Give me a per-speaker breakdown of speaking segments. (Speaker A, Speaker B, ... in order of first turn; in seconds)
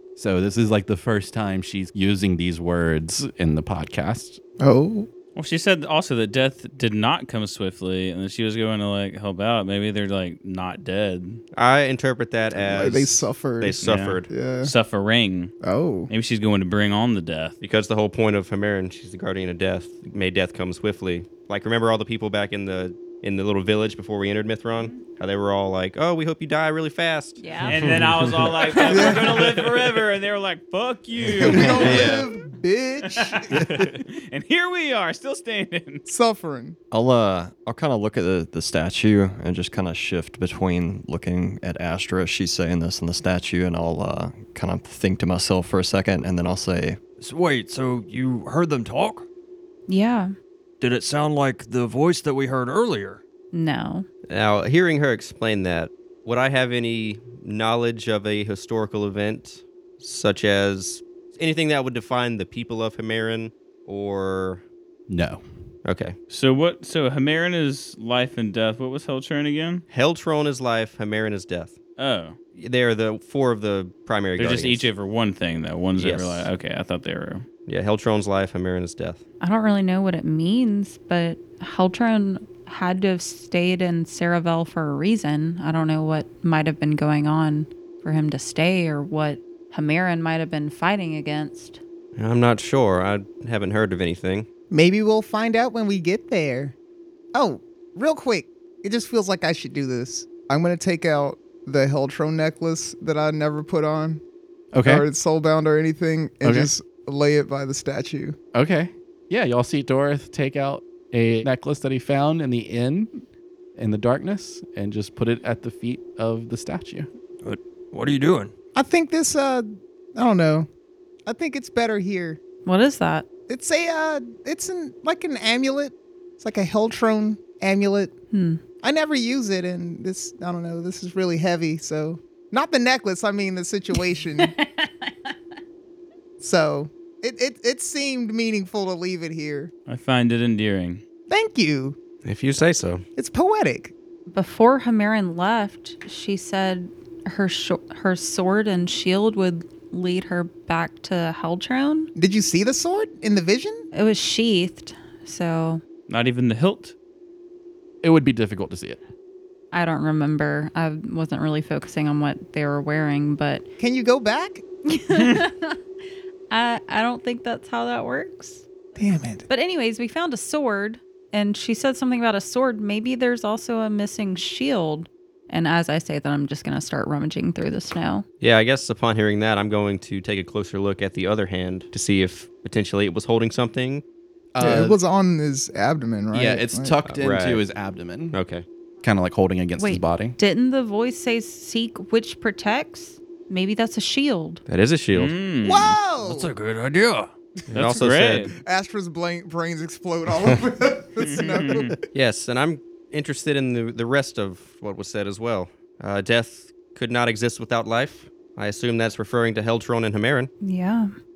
Speaker A: 0.1-4.4, 65.1-65.4, 104.7-105.1, 106.4-106.7, 108.5-113.2, 113.8-117.1, 158.0-159.0, 184.5-185.0, 186.3-188.4, 189.0-190.3
Speaker B: 4.6-5.1, 12.6-14.7, 15.6-16.1, 28.8-29.6, 31.3-33.9, 36.1-36.8, 94.7-96.7, 97.3-104.2, 104.8-108.4, 118.7-120.7, 121.2-122.4, 123.5-128.1, 128.8-134.5, 136.4-139.7, 141.3-142.0, 143.2-143.9, 152.1-153.8, 163.8-164.6, 169.0-169.4, 184.6-186.9, 195.6-196.5, 198.6-202.0
Speaker C: 5.3-11.4, 13.8-15.5, 16.1-17.6, 27.6-32.3, 33.0-36.1, 66.3-69.8, 72.0-72.3, 74.4-77.5, 139.9-141.0, 156.1-156.9, 165.1-165.4, 195.1-196.0, 197.7-198.5, 201.2-202.0
Speaker D: 11.5-14.3, 17.6-27.4, 31.6-32.3, 54.3-64.6, 65.8-66.2, 69.9-71.8, 72.5-74.9, 76.0-76.5, 77.7-79.2, 92.2-94.5, 142.2-143.0, 178.4-184.0, 187.0-187.6, 188.3-188.6, 194.7-195.3, 197.7-198.5, 202.1-210.5
Speaker E: 27.4-27.8, 49.9-50.3, 53.5-54.1, 79.4-91.8, 122.6-123.3, 128.3-128.6, 134.4-135.1, 144.3-152.1, 153.9-155.8, 159.7-163.6, 164.8-165.8, 166.5-168.7, 169.5-178.2, 189.8-194.6, 210.6-211.1
Speaker F: 27.8-28.3, 36.9-49.2, 50.8-53.2, 117.4-118.5, 196.2-197.3